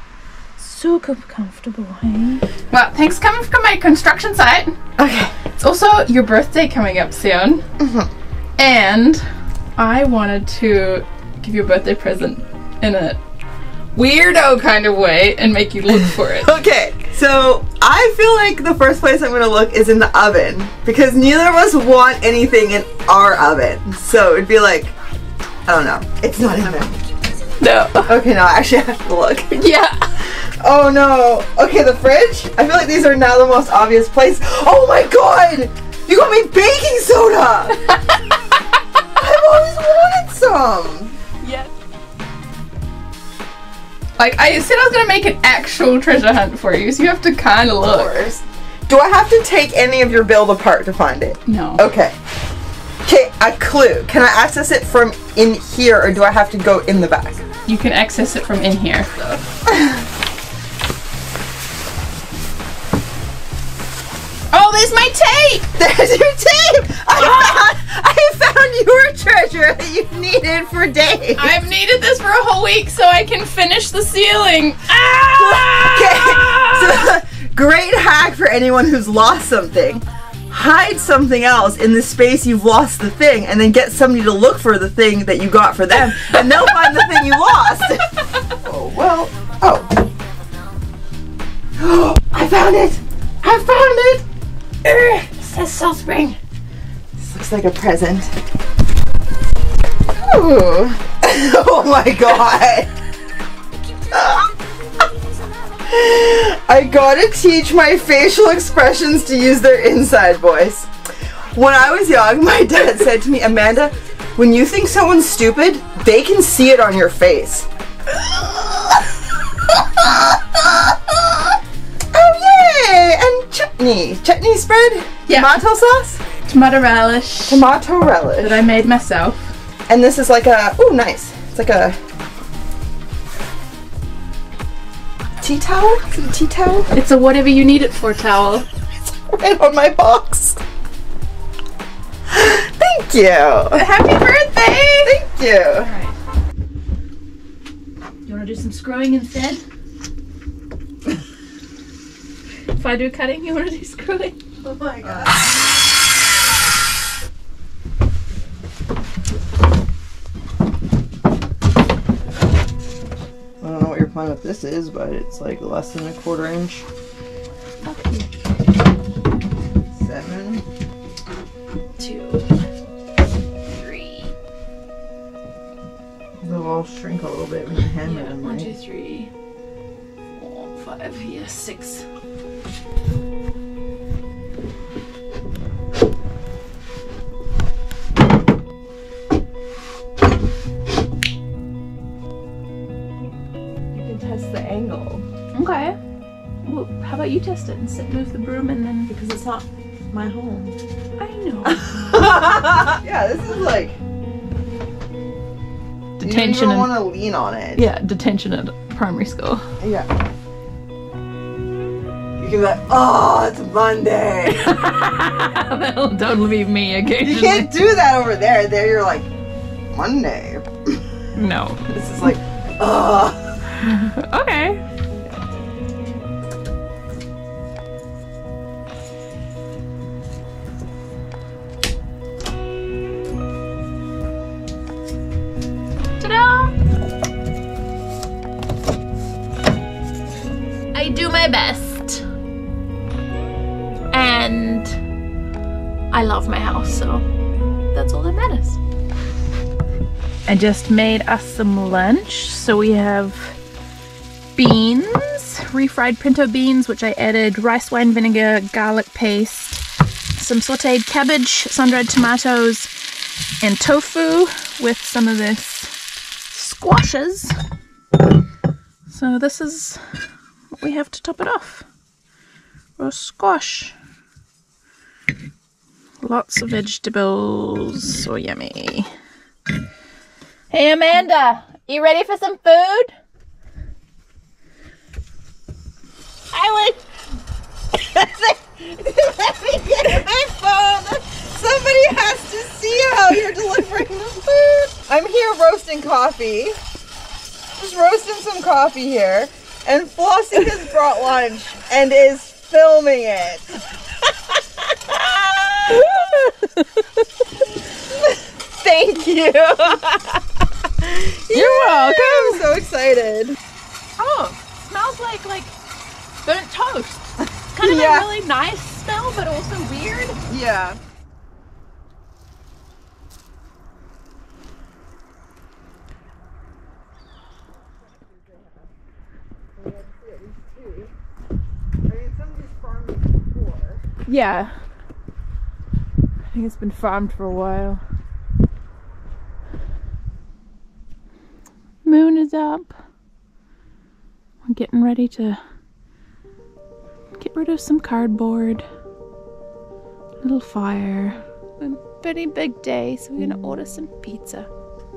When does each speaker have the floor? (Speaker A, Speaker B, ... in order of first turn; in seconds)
Speaker A: 0.6-4.8, 5.6-7.7, 8.6-13.2, 13.9-16.6, 27.6-28.2, 29.6-30.2, 37.8-38.2, 41.4-41.7, 44.2-48.3, 51.5-51.9, 57.7-59.4, 64.5-65.7, 67.2-67.6, 71.4-77.1, 86.2-87.6, 94.8-96.4, 125.3-125.6, 126.5-127.7, 128.4-129.5, 136.9-138.7, 143.7-146.2, 148.2-149.6, 152.7-155.3, 167.8-168.3, 172.0-172.5, 173.7-174.3, 178.0-179.3, 180.3-182.1, 195.5-196.0, 196.6-199.1, 201.2-202.7, 206.2-206.9, 207.8-209.7, 214.6-217.8, 221.4-221.8, 223.8-224.8, 236.2-236.8, 240.9-242.3, 244.1-245.0, 246.1-247.2, 247.9-248.8, 250.5-253.6, 254.6-259.8, 260.4-262.9, 263.6-265.9, 266.5-267.6, 269.1-270.0, 270.7-271.9, 273.0-273.9, 276.2-279.1, 280.7-283.1, 306.8-307.0, 311.5-312.7, 314.2-315.8, 316.4-320.4, 334.3-334.8, 336.5-338.0, 342.1-342.9, 344.6-345.6, 347.4-348.9, 350.4-354.7
Speaker B: 5.0-5.4, 7.8-8.1, 16.1-24.9, 25.7-27.0, 28.1-37.8, 39.1-41.2, 47.8-52.2, 53.0-57.4, 59.7-60.0, 65.8-71.6, 75.3-90.0, 91.8-94.2, 97.2-98.3, 100.2-102.9, 104.1-104.6, 105.8-110.9, 111.5-121.6, 122.1-126.2, 127.5-128.6, 129.9-132.0, 135.4-136.9, 139.1-140.6, 142.3-143.9, 145.1-145.9, 154.6-155.5, 163.6-166.9, 169.9-170.7, 176.4-178.7, 193.9-195.3, 199.1-200.8, 201.7-204.0, 206.2-207.8, 209.8-210.1, 212.4-214.8, 217.2-219.3, 219.9-221.1, 221.9-223.9, 286.5-286.9, 287.9-296.8, 297.8-303.9, 304.8-306.5, 308.0-310.4, 311.0-313.6, 317.8-318.3, 320.5-321.0, 328.0-328.9, 329.8-331.1, 332.1-334.1